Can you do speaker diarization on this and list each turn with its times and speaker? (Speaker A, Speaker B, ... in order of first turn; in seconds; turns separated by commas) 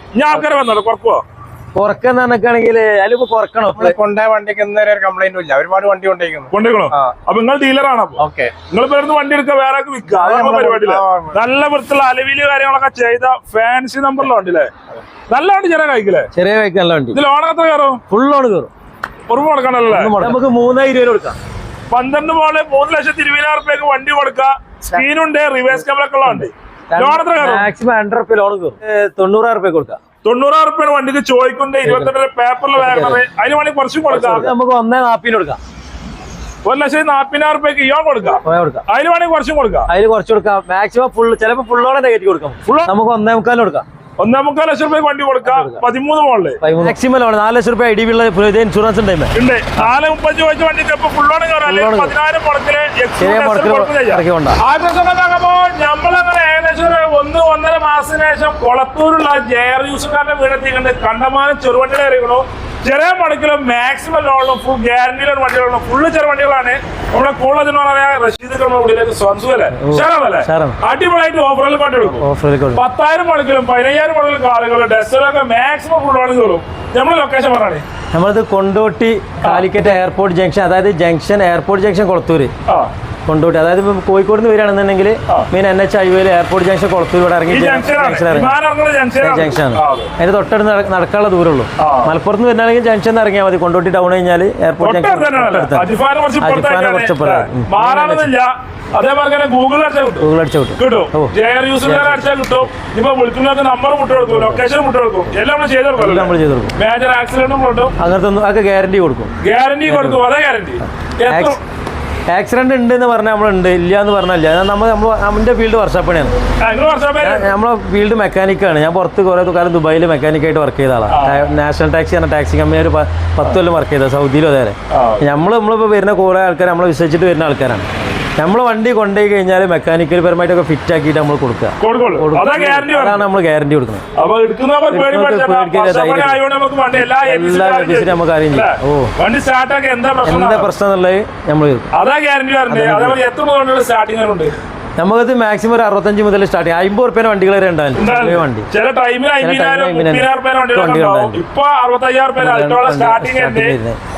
Speaker A: 0.1-1.2, Speaker B: 1.7-4.0, Speaker C: 3.8-7.1, Speaker A: 6.5-14.7, Speaker C: 8.2-8.5, Speaker C: 10.2-11.3, Speaker A: 15.3-16.3, Speaker B: 16.3-17.2, Speaker A: 17.1-18.0, Speaker B: 18.1-18.7, Speaker A: 19.3-20.4, Speaker B: 19.9-21.4, Speaker A: 21.9-27.7, Speaker B: 26.3-30.0, Speaker A: 30.2-34.5, Speaker B: 31.8-32.1, Speaker B: 32.8-33.2, Speaker B: 34.1-35.6, Speaker A: 36.6-39.9, Speaker B: 38.4-38.8, Speaker B: 39.9-43.8, Speaker A: 42.6-42.9, Speaker A: 44.2-46.6, Speaker B: 45.4-45.8, Speaker B: 46.6-49.3, Speaker A: 49.3-77.8, Speaker B: 51.6-52.1, Speaker B: 53.2-54.6, Speaker B: 69.8-70.8, Speaker B: 72.1-72.8, Speaker B: 78.1-82.5, Speaker A: 79.4-79.7, Speaker B: 83.3-88.5, Speaker A: 87.5-90.1, Speaker B: 89.2-95.9, Speaker A: 91.8-92.1, Speaker A: 94.8-107.9, Speaker B: 96.4-98.3, Speaker B: 100.2-102.3, Speaker B: 104.3-104.6, Speaker B: 106.0-106.7, Speaker B: 108.0-109.3, Speaker A: 109.4-111.6, Speaker B: 109.8-110.2, Speaker B: 111.3-111.6, Speaker B: 112.3-116.3, Speaker A: 116.6-117.5, Speaker B: 117.2-134.0, Speaker A: 121.1-121.5, Speaker A: 124.9-125.3, Speaker A: 131.8-133.3, Speaker A: 134.2-140.7, Speaker B: 134.9-136.4, Speaker B: 137.0-139.1, Speaker B: 140.2-141.9, Speaker A: 141.9-144.5, Speaker B: 142.7-143.2, Speaker B: 145.0-148.7, Speaker A: 147.9-153.8, Speaker B: 149.4-151.4, Speaker B: 152.4-154.0